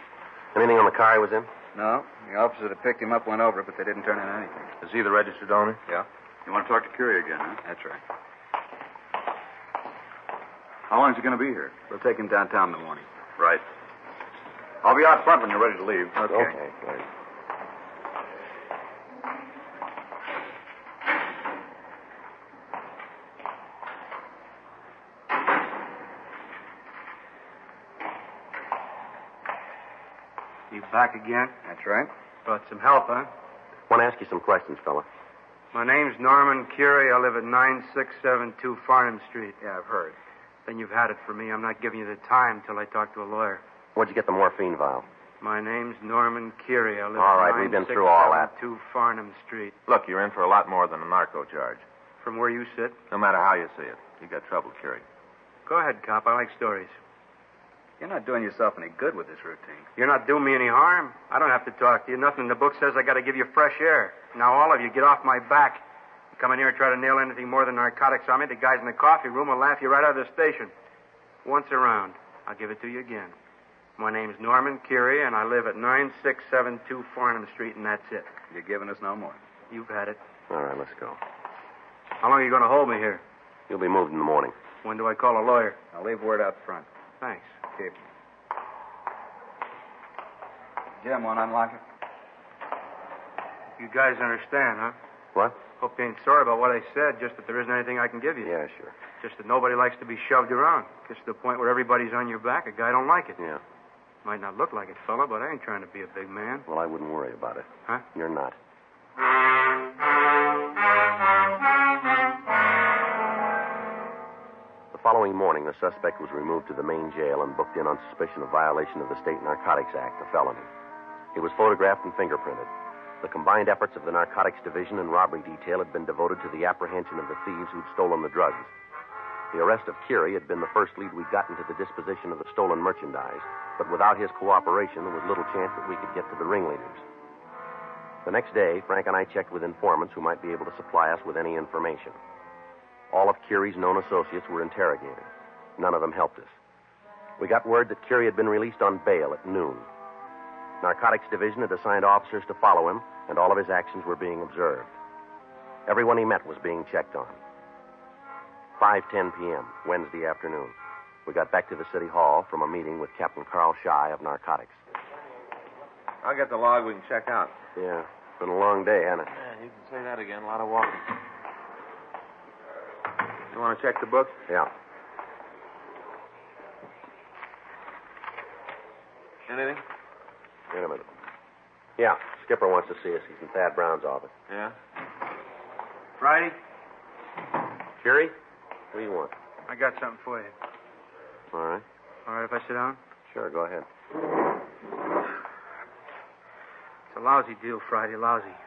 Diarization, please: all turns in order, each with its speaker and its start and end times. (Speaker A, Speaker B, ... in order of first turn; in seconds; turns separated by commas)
Speaker A: 0.5-1.5, Speaker B: 1.7-4.7, Speaker C: 4.8-5.8, Speaker D: 6.5-7.6, Speaker B: 7.6-8.0, Speaker D: 10.9-11.7, Speaker B: 11.9-13.1, Speaker D: 13.4-13.6, Speaker D: 14.8-16.2, Speaker B: 16.2-16.5, Speaker A: 16.3-17.1, Speaker E: 30.7-31.5, Speaker B: 31.6-32.1, Speaker E: 32.4-33.3, Speaker A: 33.9-35.1, Speaker E: 35.7-39.6, Speaker B: 39.6-40.2, Speaker E: 40.6-43.6, Speaker A: 43.9-45.1, Speaker E: 45.4-49.8, Speaker A: 47.1-48.5, Speaker C: 49.9-51.8, Speaker E: 52.2-53.0, Speaker C: 53.1-55.0, Speaker E: 55.6-56.9, Speaker B: 58.0-59.9, Speaker E: 60.0-65.8, Speaker E: 66.3-70.7, Speaker E: 71.4-73.3, Speaker E: 74.0-78.3, Speaker B: 78.5-79.4, Speaker E: 79.7-80.2, Speaker A: 80.5-81.2, Speaker E: 82.2-83.2, Speaker A: 83.7-84.5, Speaker E: 84.8-85.8, Speaker B: 85.9-86.9, Speaker E: 87.2-87.5, Speaker B: 87.7-88.1, Speaker B: 91.0-91.8, Speaker E: 93.8-95.0, Speaker E: 95.8-98.5, Speaker A: 98.4-98.9, Speaker E: 99.2-103.4, Speaker E: 104.2-106.7, Speaker A: 106.7-108.6, Speaker A: 114.9-120.7, Speaker A: 121.3-122.7, Speaker A: 123.2-128.7, Speaker A: 129.5-137.0, Speaker A: 138.2-142.2, Speaker A: 143.1-146.5, Speaker A: 147.4-149.9, Speaker A: 150.8-154.9, Speaker A: 155.8-157.4, Speaker A: 158.8-160.7, Speaker A: 161.2-164.8, Speaker C: 166.2-167.5, Speaker A: 167.8-169.3, Speaker C: 169.3-171.1, Speaker C: 173.5-174.3, Speaker C: 179.5-179.8, Speaker A: 180.7-181.1, Speaker A: 182.0-184.3, Speaker C: 184.5-184.7, Speaker E: 186.2-186.6, Speaker A: 188.0-188.3, Speaker A: 188.9-189.3, Speaker E: 189.7-190.5, Speaker A: 191.5-191.8, Speaker E: 192.2-193.0, Speaker A: 193.3-193.9, Speaker E: 197.1-198.6